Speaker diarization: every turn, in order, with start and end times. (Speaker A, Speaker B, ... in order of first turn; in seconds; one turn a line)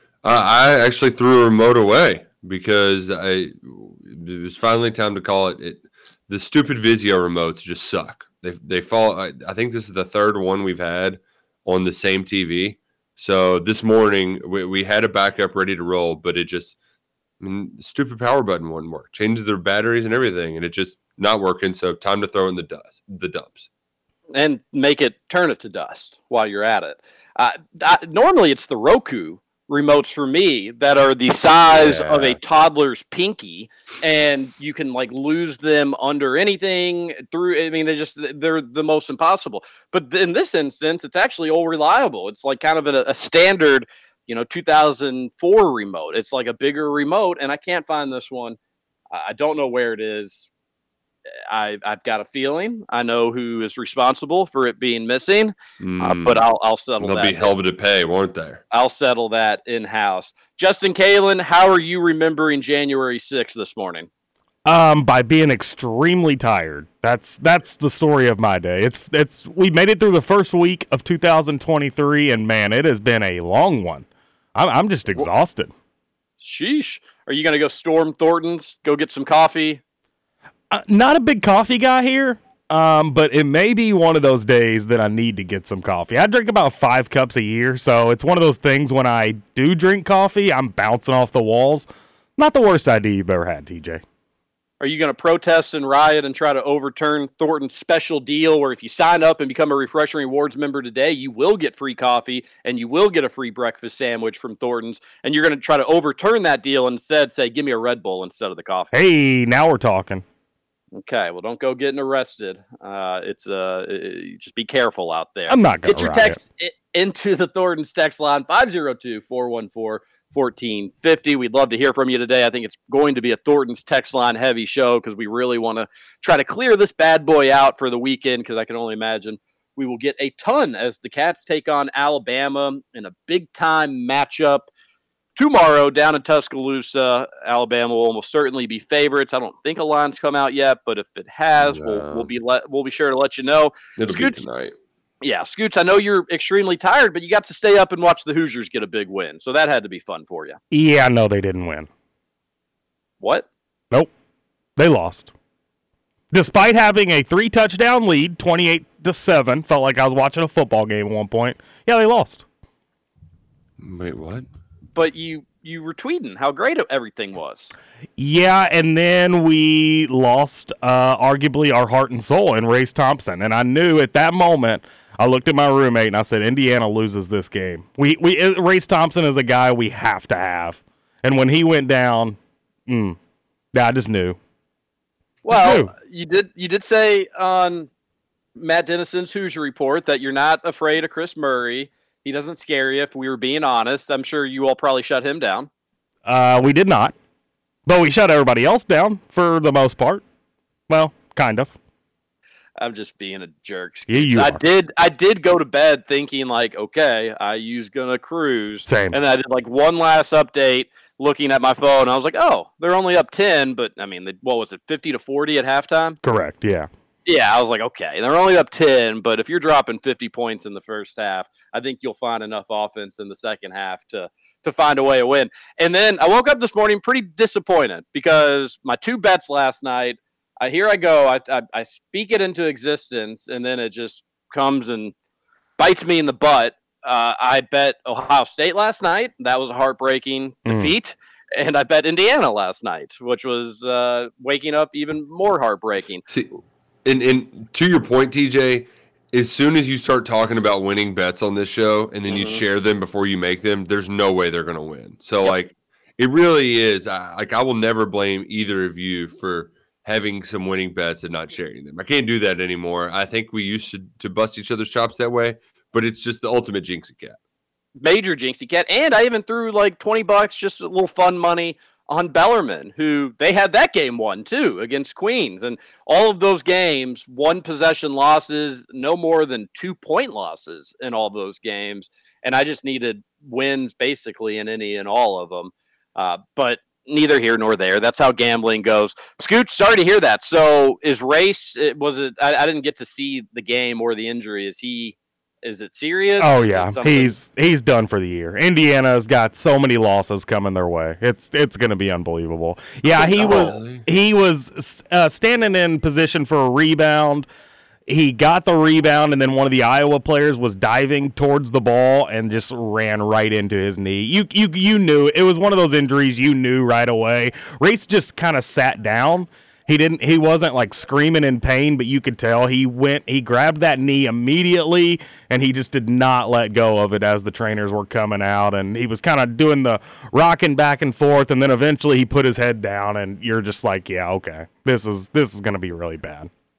Speaker A: 0.2-16.8
Speaker A: 17.4-23.7
Speaker B: 24.3-48.6
Speaker A: 31.7-32.4
Speaker B: 49.1-50.5
Speaker B: 51.5-57.5
Speaker A: 55.8-56.5
Speaker A: 57.0-58.6
Speaker B: 58.7-64.1
Speaker C: 64.7-75.7
Speaker B: 76.4-79.8
Speaker C: 80.7-94.0
Speaker B: 94.8-108.9
Speaker C: 108.9-110.2
Speaker B: 111.0-134.7
Speaker C: 115.5-116.4
Speaker B: 135.4-144.4
Speaker A: 141.6-142.3
Speaker A: 144.0-144.8
Speaker B: 145.2-150.6
Speaker C: 150.7-151.9
Speaker B: 153.2-153.5
Speaker C: 154.8-155.3
Speaker C: 156.3-162.4
Speaker A: 163.8-164.5
Speaker B: 165.0-167.7
Speaker C: 168.2-183.2
Speaker C: 183.7-184.4
Speaker B: 185.4-187.9
Speaker C: 185.5-185.9
Speaker B: 188.6-195.7
Speaker C: 196.2-197.2
Speaker C: 197.9-200.2
Speaker C: 200.9-201.8
Speaker B: 202.8-216.2
Speaker C: 204.1-204.6
Speaker C: 208.9-209.2
Speaker C: 216.2-216.9
Speaker B: 217.3-235.1
Speaker B: 235.8-246.2
Speaker C: 240.7-240.9
Speaker A: 247.1-267.4
Speaker B: 252.3-252.6
Speaker B: 268.0-297.3
Speaker C: 296.4-307.5
Speaker A: 303.1-304.1
Speaker B: 303.4-303.7
Speaker C: 308.1-336.5